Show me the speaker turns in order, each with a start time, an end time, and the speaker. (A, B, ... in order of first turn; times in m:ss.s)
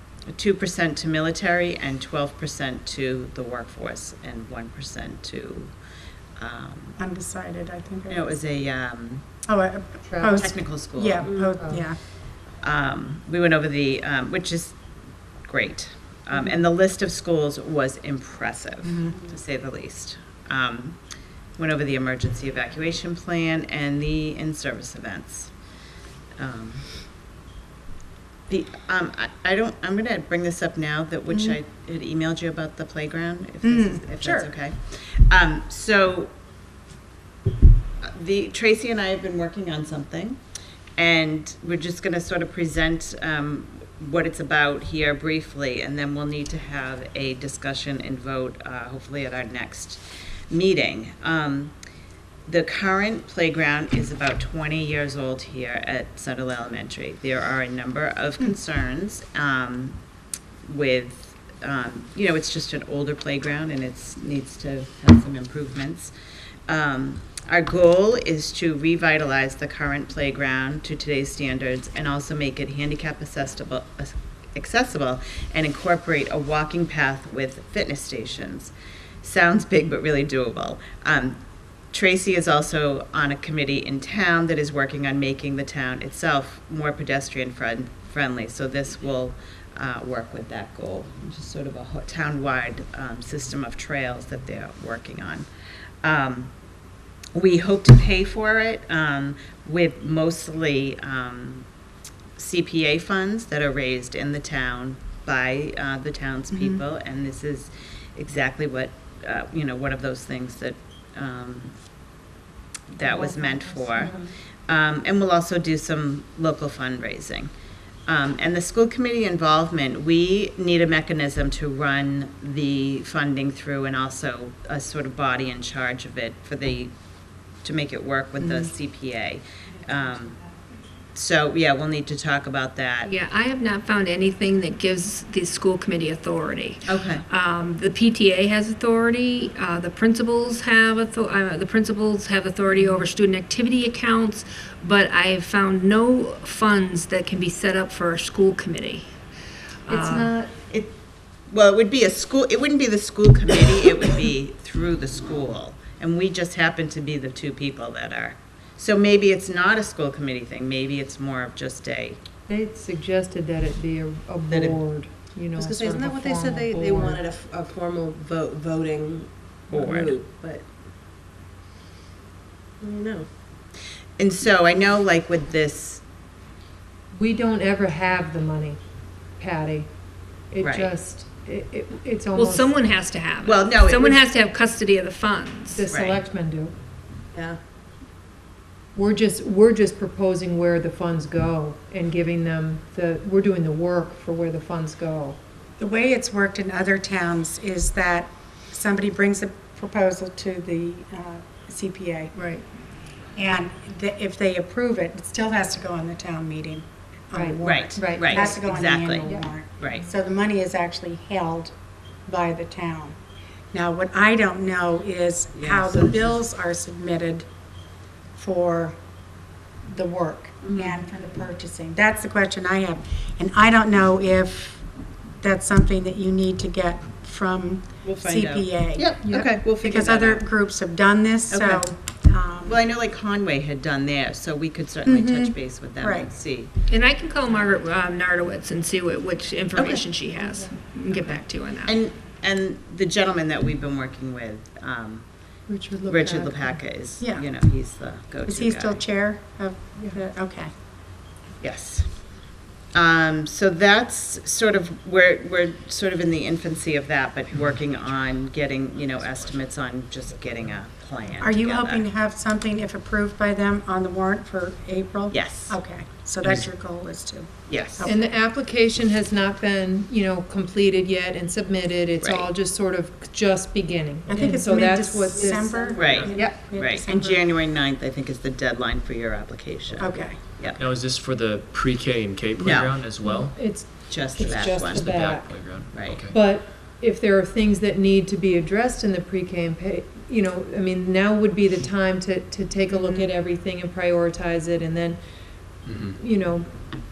0:00.3-0:05.7 A
0:06.4-0:07.0 A
0:07.0-0:08.4 B
0:08.1-0:09.2 A
0:09.5-0:12.0 B
0:10.4-0:11.3 A
0:12.6-0:14.8 A
0:15.5-0:21.0 A
0:18.8-0:19.1 B
0:21.6-0:25.5 A
0:26.4-0:26.8 A
0:28.5-0:36.3 A
0:33.6-0:34.5 B
0:38.0-0:40.4 A
0:41.0-0:51.7 A
0:52.5-1:00.0 A
1:00.7-1:06.1 A
1:06.7-1:21.4 A
1:21.9-1:35.5 A
1:36.0-1:36.5 A
1:37.3-1:41.7 A
1:42.4-1:51.8 A
1:46.5-1:46.8 B
1:52.9-1:54.2 A
1:53.4-1:54.0 C
1:54.7-1:57.5 A
1:58.1-2:06.9 A
2:07.6-2:10.4 A
2:08.4-2:08.7 B
2:11.2-2:13.1 A
2:13.0-2:29.1 D
2:16.9-2:17.2 A
2:29.9-2:30.3 D
2:29.9-2:30.5 C
2:30.7-2:31.0 A
2:31.5-2:42.2 A
2:42.5-2:47.2 C
2:44.5-2:44.8 A
2:45.6-2:50.6 E
2:49.7-2:50.2 A
2:52.8-2:53.3 E
2:54.2-2:56.0 A
2:57.1-2:58.8 C
2:59.4-2:59.9 C
3:00.5-3:02.7 C
3:00.6-3:00.9 A
3:02.4-3:05.8 D
3:03.4-3:04.2 A
3:05.8-3:06.7 C
3:05.9-3:06.2 A
3:09.0-3:15.4 C
3:15.8-3:22.4 B
3:22.4-3:22.6 D
3:23.4-3:31.7 B
3:27.4-3:28.5 C
3:27.6-3:30.0 A
3:32.3-3:33.2 B
3:33.7-3:37.5 B
3:35.6-3:36.4 A
3:38.4-3:39.0 B
3:39.9-3:44.8 B
3:40.6-3:41.0 A
3:45.4-3:52.8 B
3:48.0-3:50.4 A
3:51.5-3:51.8 A
3:52.6-3:56.7 A
3:55.0-3:56.3 B
3:56.9-4:02.0 D
3:59.8-4:00.1 A
4:01.8-4:05.3 A
4:05.7-4:06.8 C
4:06.1-4:09.0 A
4:07.2-4:07.5 B
4:08.4-4:10.7 B
4:11.6-4:12.3 A
4:12.9-4:22.0 A
4:21.4-4:28.3 B
4:25.3-4:25.8 A
4:27.7-4:28.1 A
4:28.1-4:36.2 C
4:32.2-4:32.5 A
4:34.3-4:37.4 B
4:36.0-4:40.8 A
4:40.0-4:40.4 B
4:40.8-4:43.6 F
4:42.6-4:43.0 A
4:43.2-4:45.5 C
4:44.1-4:45.1 A
4:44.4-4:46.3 F
4:45.9-4:46.3 A
4:46.3-4:55.2 C
4:52.9-4:53.3 B
4:55.9-4:56.2 F
4:56.2-4:56.6 C